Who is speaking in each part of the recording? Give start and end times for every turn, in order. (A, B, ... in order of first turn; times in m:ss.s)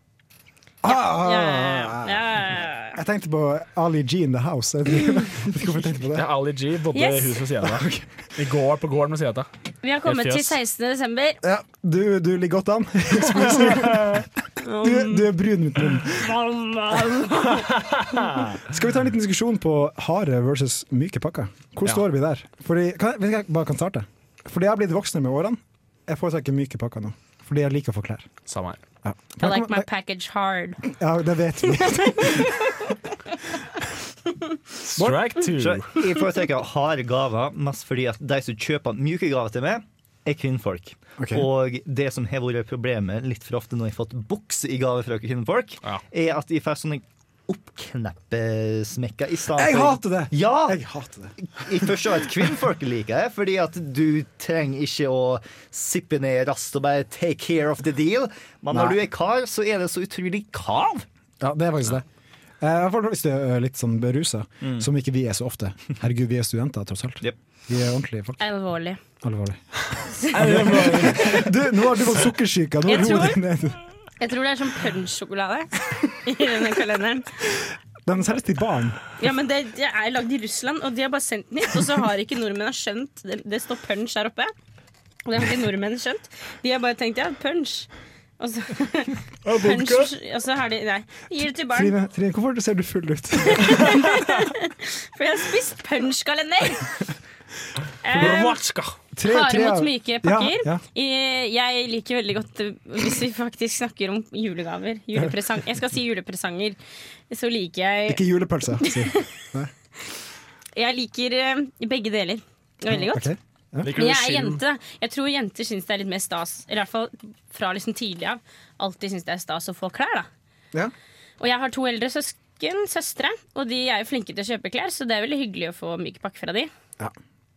0:00.8-0:06.3 A
0:00.9-0:03.0 B
0:06.1-0:09.5 C
0:06.9-0:07.4 B
0:07.6-0:08.1 A
0:09.8-0:11.4 B
0:10.1-0:10.6 C
0:11.4-0:14.3 A
0:13.6-0:14.2 C
0:14.6-0:15.3 B
0:14.8-0:16.3 A
0:16.1-0:17.7 B
0:17.7-0:18.5 C
0:18.6-0:28.3 A
0:28.5-0:28.8 C
0:29.0-0:29.9 A
0:29.4-0:30.8 B
0:30.8-0:32.7 A
0:31.9-0:32.6 B
0:34.8-0:36.0 C
0:35.0-0:35.3 A
0:35.6-0:50.8 D
0:41.2-0:41.5 A
0:49.5-0:52.0 A
0:51.6-1:01.0 D
0:58.7-0:59.0 A
1:01.4-1:02.0 A
1:02.6-1:08.4 A
1:08.4-1:09.0 B
1:09.2-1:09.6 A
1:10.2-1:13.8 A
1:10.3-1:11.5 C
1:10.9-1:11.4 B
1:12.9-1:13.4 B
1:14.2-1:17.4 B
1:18.1-1:19.0 A
1:19.2-1:24.5 B
1:25.2-1:31.9 B
1:29.4-1:30.1 C
1:31.7-1:34.0 A
1:33.4-1:36.9 B
1:38.0-1:38.6 B
1:38.1-1:38.9 C
1:39.1-1:40.8 A
1:39.2-1:46.8 B
1:47.3-1:48.2 B
1:48.1-1:49.7 A
1:48.8-1:49.2 B
1:50.8-1:53.3 B
1:52.9-1:53.9 A
1:53.8-1:54.6 C
1:53.9-2:00.3 B
2:01.4-2:06.7 B